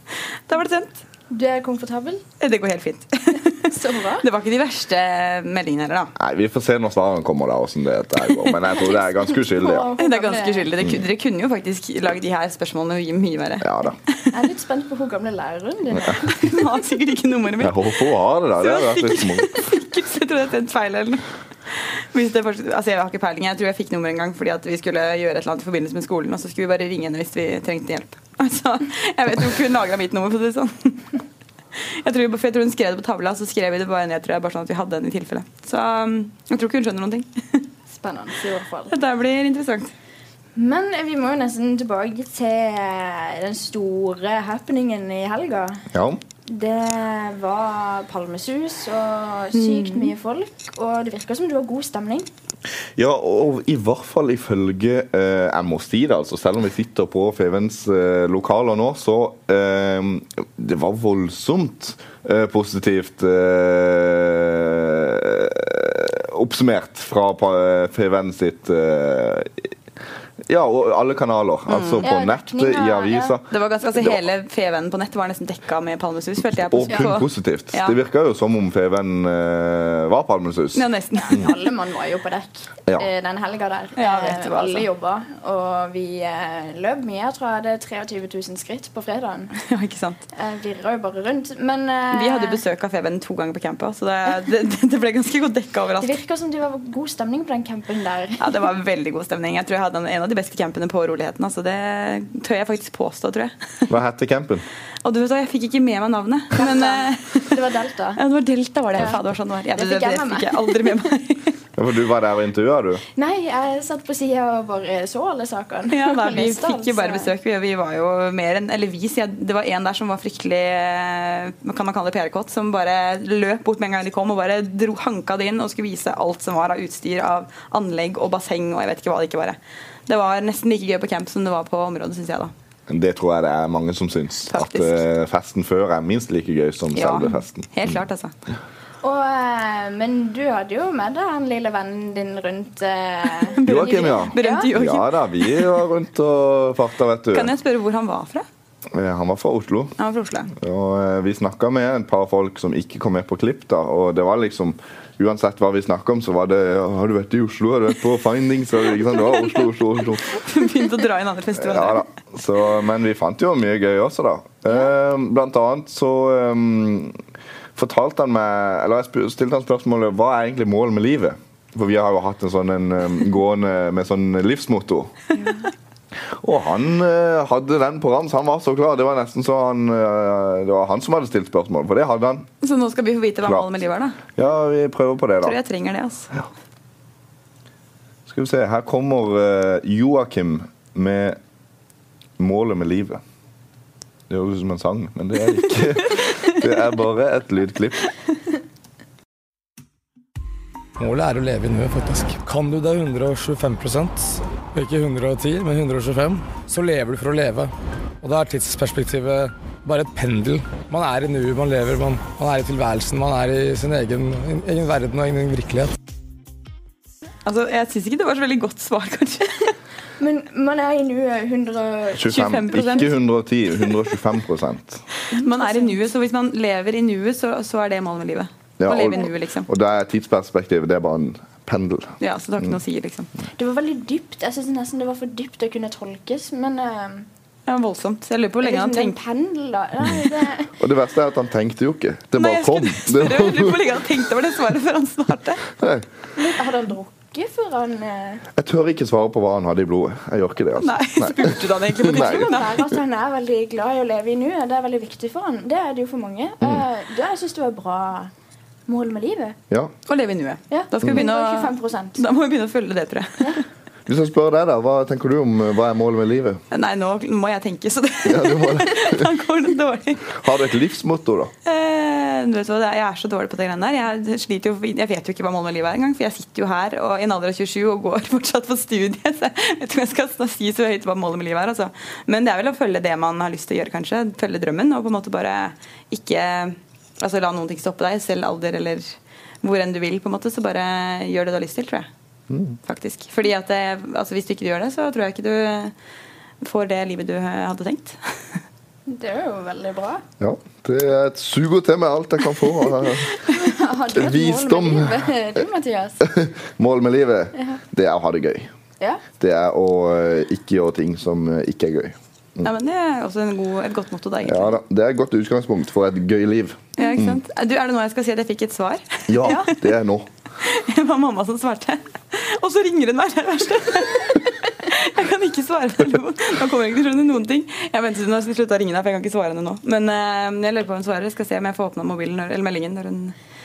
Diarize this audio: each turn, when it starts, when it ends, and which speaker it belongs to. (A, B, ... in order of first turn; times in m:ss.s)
0:00.5-0:01.0 A
0:01.3-0:02.2 B
0:02.4-0:06.1 A
0:03.7-0:04.2 B
0:06.2-0:09.9 C
0:09.0-0:10.7 B
0:10.0-0:14.3 A
0:13.6-0:14.0 C
0:14.3-0:16.6 B
0:16.4-0:18.0 A
0:17.6-0:19.6 C
0:18.6-0:31.2 A
0:31.8-0:37.6 A
0:37.9-0:39.0 B
0:38.9-0:39.9 A
0:40.6-0:45.9 B
0:45.9-0:46.2 C
0:46.5-0:52.3 B
0:49.5-0:50.1 A
0:53.0-1:09.7 C
1:10.5-1:14.2 C
1:11.7-1:12.1 A
1:12.0-1:13.4 B
1:13.5-1:18.0 A
1:16.6-1:20.8 C
1:20.7-1:21.6 A
1:21.2-1:29.5 B
1:24.0-1:24.9 A
1:29.6-1:30.2 A
1:30.3-1:32.6 B
1:32.1-1:36.2 A
1:36.0-1:38.6 B
1:38.4-1:43.9 A
1:43.9-1:44.6 C
1:45.0-1:47.6 A
1:46.6-1:48.2 B
1:48.2-1:51.6 A
1:49.0-1:49.2 B
1:49.7-1:51.1 B
1:51.8-1:53.0 C
1:53.2-1:57.3 B
1:55.9-2:12.5 A
2:12.9-2:18.0 C
2:14.5-2:15.0 A
2:16.9-2:18.3 A
2:19.0-2:24.7 B
2:23.5-2:25.7 A
2:23.6-2:27.5 C
2:27.3-2:28.5 A
2:28.9-2:30.0 C
2:30.0-2:30.5 A
2:30.5-2:40.3 C
2:40.3-2:42.0 A
2:41.6-2:47.2 C
2:47.8-2:55.2 C
2:55.4-2:55.6 A
2:56.4-3:02.5 C
3:02.6-3:04.2 A
3:03.4-3:03.7 C
3:04.4-3:05.6 C
3:05.4-3:06.3 A
3:08.3-3:11.4 C
3:12.4-3:13.2 C
3:14.3-3:18.0 C
3:21.0-3:35.9 D
3:37.5-3:39.8 A
3:40.2-3:43.1 B
3:42.2-3:45.0 C
3:42.3-3:43.1 A
3:45.3-3:49.7 A
3:45.3-3:46.0 B
3:48.8-3:52.7 C
3:52.2-3:53.3 A
3:53.6-3:57.3 B
3:57.7-3:59.2 A
3:58.6-4:00.7 B
4:00.8-4:03.9 C
4:02.3-4:05.6 A
4:05.8-4:06.1 C
4:06.4-4:08.4 B
4:08.6-4:12.8 C
4:10.8-4:12.7 A
4:12.1-4:18.3 B
4:18.9-4:19.6 B
4:20.1-4:23.6 A
4:20.7-4:22.2 B
4:24.1-4:26.6 C
4:26.7-4:30.3 A
4:28.2-4:29.2 C
4:30.3-4:31.5 C
4:31.7-4:52.1 A
4:52.5-4:52.8 C
4:52.9-4:55.9 A
4:56.6-4:58.6 A
4:59.1-5:00.2 B
5:00.4-5:03.4 C
5:03.5-5:06.2 B
5:04.1-5:05.1 C
5:06.2-5:08.7 C
5:07.6-5:07.8 B
5:09.4-5:12.7 C
5:12.6-5:14.8 A
5:14.4-5:17.4 C
5:17.0-5:19.8 A
5:19.3-5:20.3 C
5:20.6-5:33.4 A